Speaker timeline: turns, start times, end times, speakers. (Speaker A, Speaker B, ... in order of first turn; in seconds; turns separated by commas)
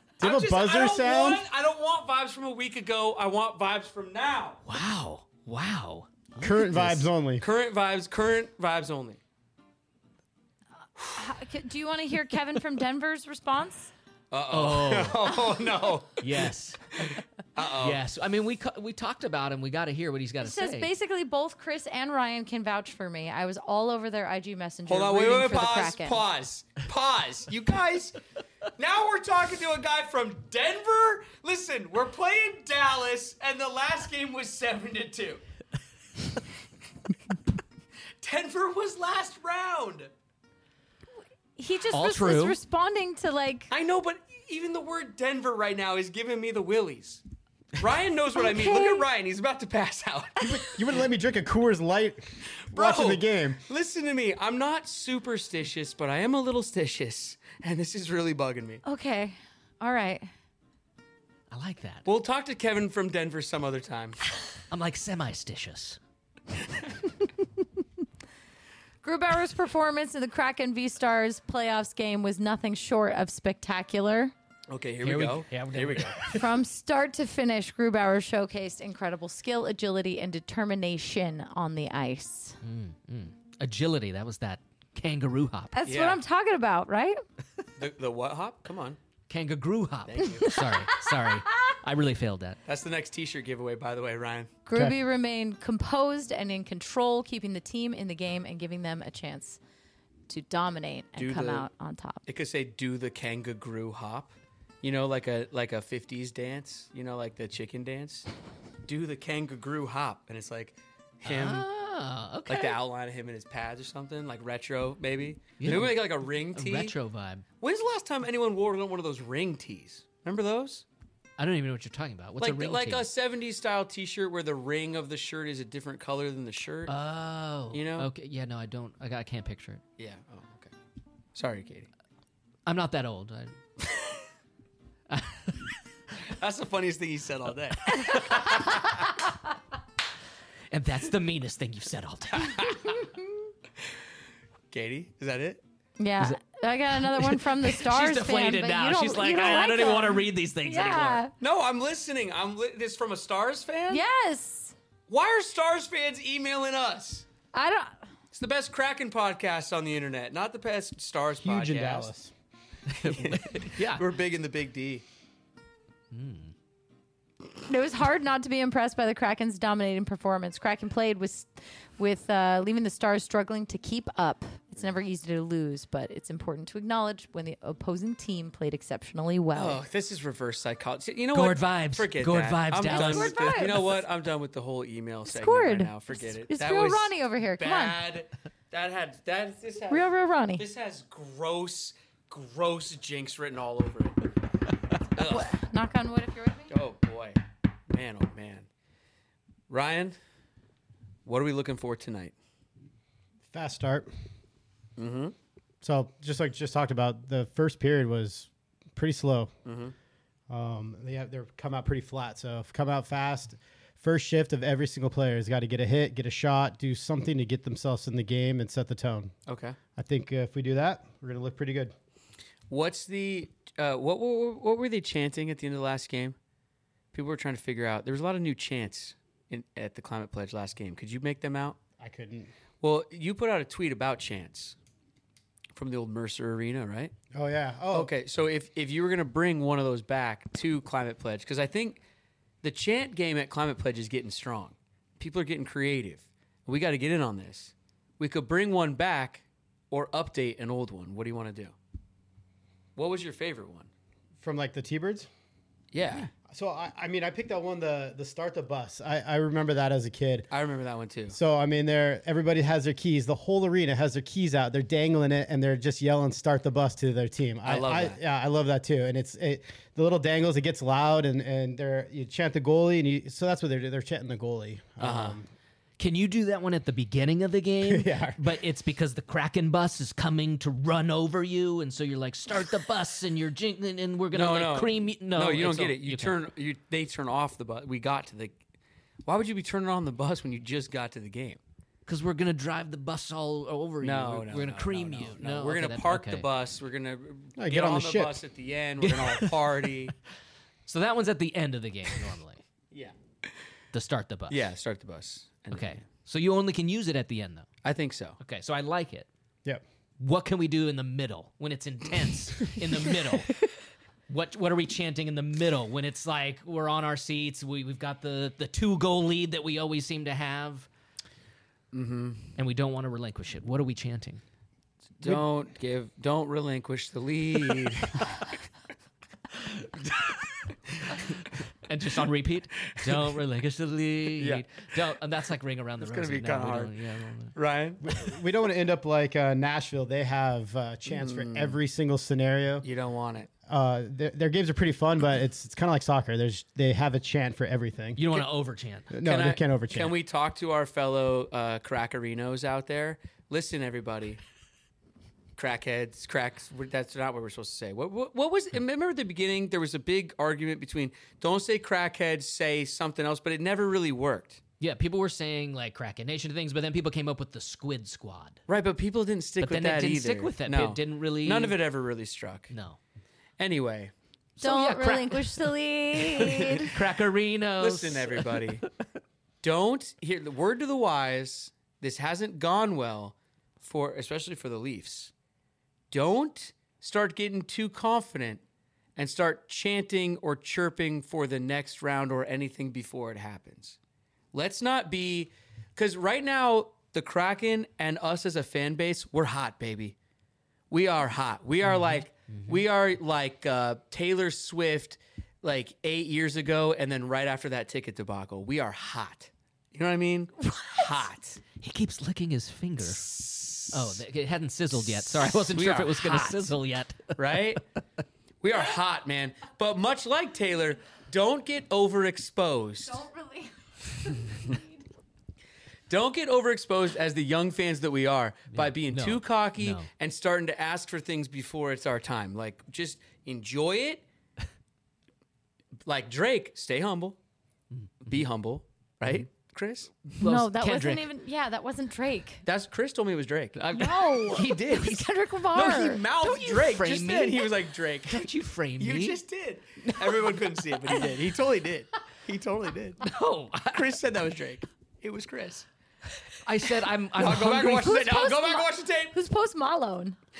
Speaker A: 0.2-1.4, Speaker B: 0.2-4.6, Speaker C: 4.7-7.1, Speaker A: 6.4-7.4, Speaker B: 7.4-9.2, Speaker D: 11.1-13.9, Speaker B: 14.3-16.5, Speaker C: 14.5-15.3, Speaker C: 16.2-17.2, Speaker B: 17.0-18.0, Speaker C: 17.7-20.9, Speaker D: 20.4-26.2, Speaker B: 24.9-28.2, Speaker B: 28.8-35.4, Speaker B: 38.2-40.1, Speaker D: 41.6-43.7, Speaker C: 41.9-42.6, Speaker B: 43.7-47.2, Speaker B: 47.8-50.5, Speaker D: 48.4-49.0, Speaker A: 50.5-53.6, Speaker B: 52.7-58.8, Speaker D: 58.8-60.3, Speaker C: 61.5-62.0, Speaker B: 62.0-64.2, Speaker C: 64.7-66.0, Speaker D: 69.0-74.3, Speaker B: 74.7-76.4, Speaker C: 75.0-76.4, Speaker D: 76.3-82.6, Speaker C: 82.6-85.7, Speaker D: 85.7-87.2, Speaker B: 85.8-86.2, Speaker B: 87.8-89.0, Speaker C: 89.3-92.6, Speaker B: 90.1-90.5, Speaker D: 90.4-91.0, Speaker B: 92.7-94.5, Speaker D: 94.7-99.6, Speaker D: 100.3-102.2, Speaker B: 101.2-101.7, Speaker B: 102.2-108.3, Speaker B: 108.8-111.7, Speaker C: 111.2-112.8, Speaker B: 112.5-116.9, Speaker C: 115.6-117.4, Speaker B: 117.6-120.8, Speaker C: 121.4-123.1, Speaker B: 122.4-126.9, Speaker C: 126.9-129.8, Speaker B: 127.7-128.1, Speaker B: 130.0-130.7, Speaker B: 131.3-131.9, Speaker C: 132.7-133.6, Speaker B: 133.8-134.2, Speaker C: 135.1-135.7, Speaker B: 136.2-138.4, Speaker C: 137.9-139.1, Speaker C: 140.7-142.8, Speaker B: 142.5-142.8, Speaker B: 144.7-145.6, Speaker D: 146.0-151.3, Speaker C: 147.0-151.2, Speaker B: 151.4-154.0, Speaker D: 153.9-154.7, Speaker B: 155.1-157.2, Speaker D: 157.5-158.0, Speaker B: 158.3-162.1, Speaker A: 161.4-162.3, Speaker C: 162.9-164.0, Speaker B: 163.0-165.0, Speaker C: 166.1-166.5, Speaker D: 167.7-179.8, Speaker B: 179.5-194.3, Speaker C: 181.3-183.9, Speaker D: 182.8-184.0, Speaker D: 185.3-188.0, Speaker D: 189.9-190.6, Speaker B: 195.2-195.5, Speaker D: 195.2-196.7, Speaker B: 196.7-198.7, Speaker B: 199.7-200.2, Speaker B: 201.2-202.3, Speaker A: 203.5-204.1, Speaker B: 205.0-205.3, Speaker A: 205.8-209.5, Speaker B: 209.7-209.9, Speaker A: 210.5-219.3, Speaker B: 219.5-219.8, Speaker A: 220.0-221.9, Speaker B: 222.7-226.3, Speaker B: 227.1-231.8, Speaker A: 232.0-232.5, Speaker B: 232.8-234.8, Speaker B: 235.7-237.1, Speaker A: 237.3-238.1, Speaker B: 237.9-242.0, Speaker B: 242.6-251.7, Speaker B: 252.9-253.9, Speaker A: 254.4-255.3, Speaker B: 255.9-256.3, Speaker A: 256.5-260.5, Speaker B: 260.5-261.4, Speaker A: 261.3-275.5, Speaker B: 267.6-268.2, Speaker B: 275.0-275.4, Speaker C: 276.0-286.4, Speaker A: 277.8-278.4, Speaker B: 284.3-288.6, Speaker B: 289.2-291.6, Speaker C: 292.1-296.4, Speaker B: 294.0-300.1, Speaker A: 297.6-298.4, Speaker C: 300.9-302.6, Speaker C: 303.9-304.6, Speaker B: 304.5-306.1, Speaker C: 305.7-307.6, Speaker B: 307.8-308.4, Speaker C: 308.4-309.3, Speaker C: 310.2-313.6, Speaker C: 314.3-320.9, Speaker B: 321.9-322.5, Speaker C: 322.6-324.4, Speaker B: 325.2-328.4, Speaker B: 330.0-331.2, Speaker C: 331.8-337.5, Speaker B: 334.4-334.9, Speaker B: 336.0-336.9, Speaker B: 337.5-338.0, Speaker A: 338.0-342.9, Speaker B: 341.1-341.8, Speaker B: 342.8-343.5, Speaker A: 343.7-348.4, Speaker C: 348.1-349.1, Speaker A: 349.1-350.1, Speaker B: 349.2-354.4, Speaker B: 355.6-364.6, Speaker C: 364.8-368.6, Speaker B: 368.7-372.7, Speaker C: 369.6-371.8, Speaker C: 372.7-373.0, Speaker B: 373.6-374.1, Speaker C: 374.6-375.7, Speaker D: 374.6-376.9, Speaker C: 376.4-378.7, Speaker B: 377.8-378.9, Speaker B: 379.6-385.3, Speaker B: 386.1-388.6, Speaker B: 389.1-394.0, Speaker B: 394.5-400.1, Speaker B: 400.9-411.6, Speaker C: 401.9-402.8, Speaker C: 411.8-413.2, Speaker B: 413.1-414.2, Speaker C: 413.9-417.8, Speaker B: 415.4-416.7, Speaker B: 417.4-417.8, Speaker B: 418.6-423.2, Speaker D: 423.1-425.0, Speaker B: 426.1-434.2, Speaker C: 428.7-430.1, Speaker B: 436.1-437.4, Speaker C: 437.9-438.4, Speaker B: 438.2-440.3, Speaker C: 440.4-441.2, Speaker D: 440.4-442.6, Speaker B: 442.6-448.5, Speaker D: 443.9-446.2, Speaker C: 446.4-447.7, Speaker C: 448.3-449.4, Speaker B: 449.0-453.2, Speaker C: 450.0-451.2, Speaker C: 453.2-454.1, Speaker B: 453.9-455.9, Speaker C: 456.6-458.1, Speaker B: 457.3-459.3, Speaker D: 457.9-460.4